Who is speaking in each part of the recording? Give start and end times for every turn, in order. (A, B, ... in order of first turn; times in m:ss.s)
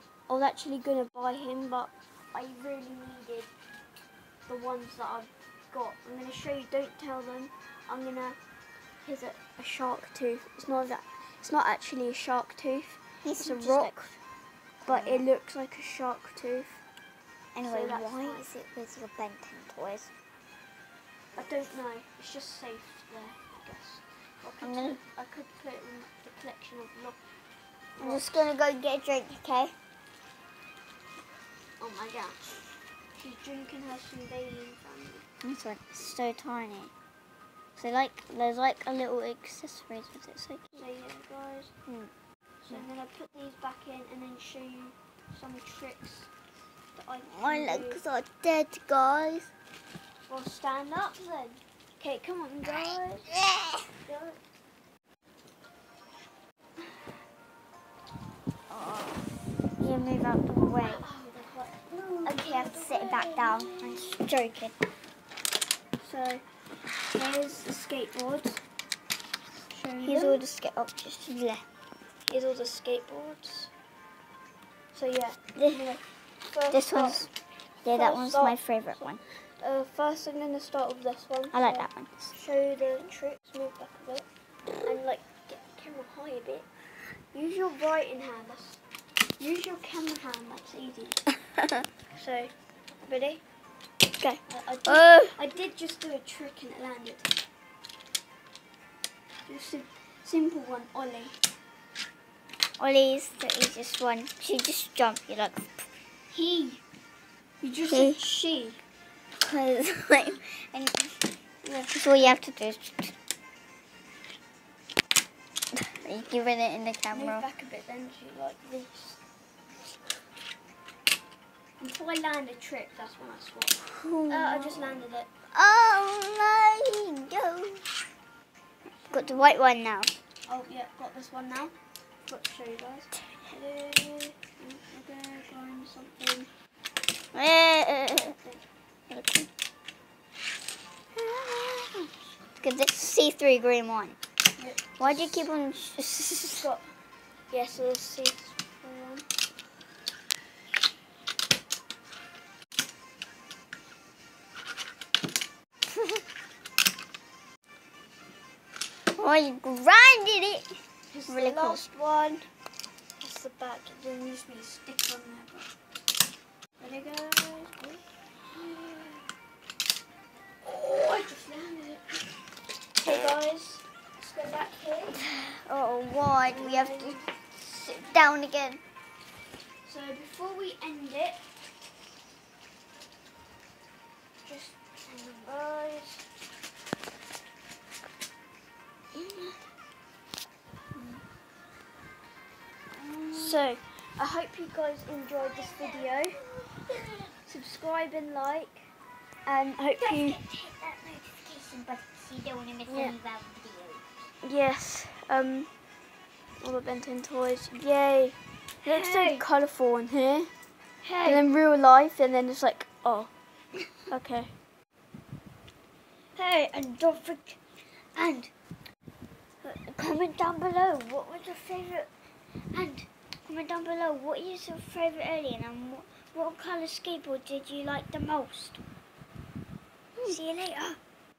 0:00.3-0:03.5 A
0:04.5-0:08.4 A
0:09.0-0:14.2 A
0:13.2-0:14.0 B
0:14.8-0:15.3 B
0:14.8-0:16.8 A
0:17.6-0:20.1 B
0:17.7-0:18.5 A
0:21.4-0:27.2 A
0:24.6-0:25.0 B
0:28.0-0:28.5 A
0:28.0-0:29.7 B
0:31.8-0:32.6 A
0:33.2-0:35.2 A
0:35.4-0:36.9 B
0:37.8-0:40.7 B
0:40.7-0:41.7 A
0:41.9-0:42.1 B
0:42.6-0:46.3 A
0:47.0-0:48.0 A
0:47.3-0:49.5 B
0:50.3-0:53.3 A
0:52.8-0:53.9 B
0:54.0-0:54.4 A
0:58.7-1:01.0 B
1:00.6-1:04.2 A
1:02.2-1:04.8 B
1:06.0-1:06.4 A
1:07.0-1:08.6 A
1:09.7-1:10.4 A
1:10.0-1:11.7 B
1:12.3-1:13.7 A
1:14.9-1:17.3 A
1:15.6-1:15.9 B
1:16.7-1:17.3 B
1:17.8-1:19.2 B
1:17.9-1:24.3 A
1:21.5-1:22.3 B
1:24.8-1:28.8 A
1:29.4-1:31.2 A
1:31.6-1:31.8 B
1:32.1-1:32.5 A
1:33.0-1:33.4 A
1:34.1-1:35.4 B
1:34.5-1:37.3 A
1:39.5-1:41.4 A
1:42.8-1:45.9 B
1:46.3-1:46.8 A
1:47.6-1:48.8 A
1:47.9-1:48.2 B
1:49.4-1:51.4 B
1:51.6-1:51.9 A
1:51.9-1:53.2 B
1:55.7-1:57.5 B
1:57.1-1:59.2 A
2:01.8-2:05.3 A
2:03.8-2:07.9 B
2:09.0-2:09.4 A
2:09.1-2:10.1 B
2:10.5-2:11.8 A
2:12.3-2:16.5 A
2:17.3-2:18.4 B
2:18.1-2:18.6 A
2:19.1-2:19.5 B
2:21.1-2:24.2 B
2:24.6-2:25.4 A
2:25.0-2:26.7 B
2:26.6-2:26.9 A
2:27.5-2:29.3 A
2:39.1-2:41.8 B
2:41.1-2:42.5 A
2:43.2-2:45.7 A
2:46.8-2:49.3 A
2:50.6-2:52.4 A
2:53.0-2:55.3 A
2:55.2-2:58.8 B
2:56.5-2:57.4 A
2:59.8-3:01.4 A
3:04.4-3:06.3 A
3:09.2-3:09.5 B
3:12.9-3:13.7 B
3:13.3-3:16.4 A
3:15.4-3:17.4 B
3:17.5-3:18.9 A
3:19.4-3:20.4 A
3:20.0-3:24.3 B
3:22.9-3:23.2 A
3:24.4-3:25.7 A
3:26.6-3:30.5 A
3:28.8-3:29.4 B
3:31.0-3:31.6 B
3:31.2-3:33.3 A
3:34.1-3:34.5 A
3:36.4-3:38.5 B
3:39.6-3:42.1 B
3:42.7-3:48.8 B
3:50.2-3:51.0 B